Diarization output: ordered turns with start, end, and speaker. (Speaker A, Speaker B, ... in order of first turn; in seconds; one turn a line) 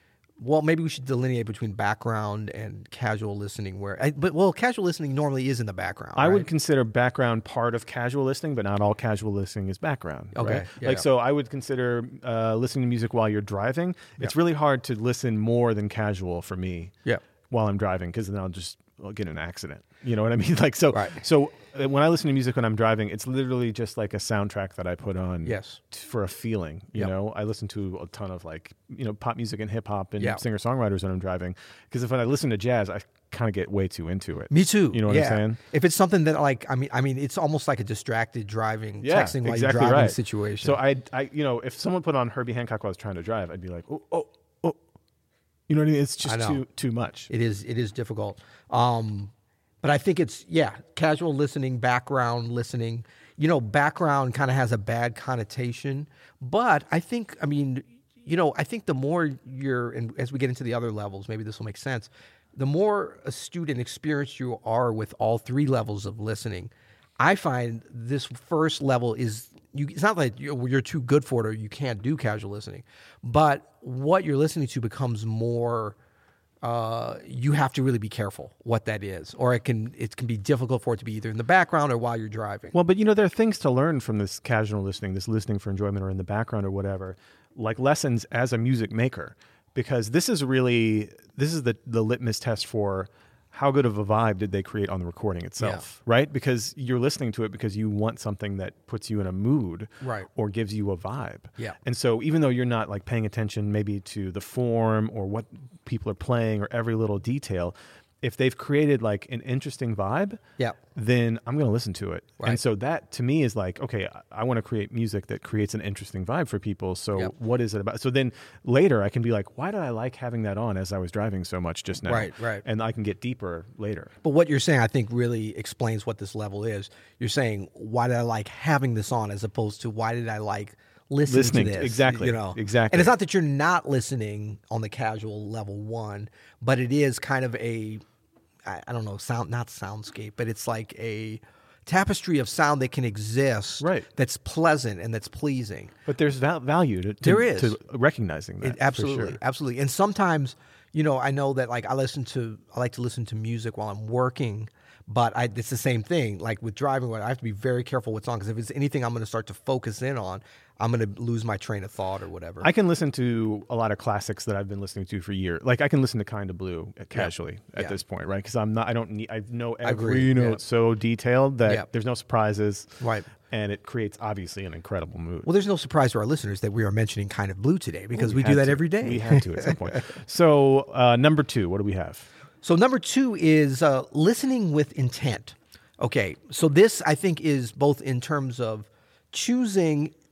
Speaker A: 0.4-6.5
Speaker B: 6.2-16.9
Speaker A: 10.3-11.0
Speaker B: 17.5-35.6
Speaker A: 20.9-21.2
Speaker A: 25.4-25.8
Speaker A: 34.5-40.8
Speaker B: 39.0-44.8
Speaker B: 45.7-47.3
Speaker A: 46.2-46.6
Speaker A: 47.3-76.0
Speaker A: 76.6-82.7
Speaker B: 82.7-110.4
Speaker A: 100.0-100.3
Speaker B: 110.9-124.1
Speaker A: 122.1-122.6
Speaker A: 124.2-138.0
Speaker B: 131.3-133.1
Speaker A: 138.7-145.9
Speaker B: 143.8-144.1
Speaker B: 146.1-149.4
Speaker A: 147.2-147.8
Speaker A: 148.6-162.7
Speaker B: 162.6-175.5
Speaker A: 167.1-168.0
Speaker A: 169.8-170.6
Speaker A: 173.0-173.3
Speaker A: 175.4-180.0
Speaker B: 178.1-182.2
Speaker A: 182.6-190.1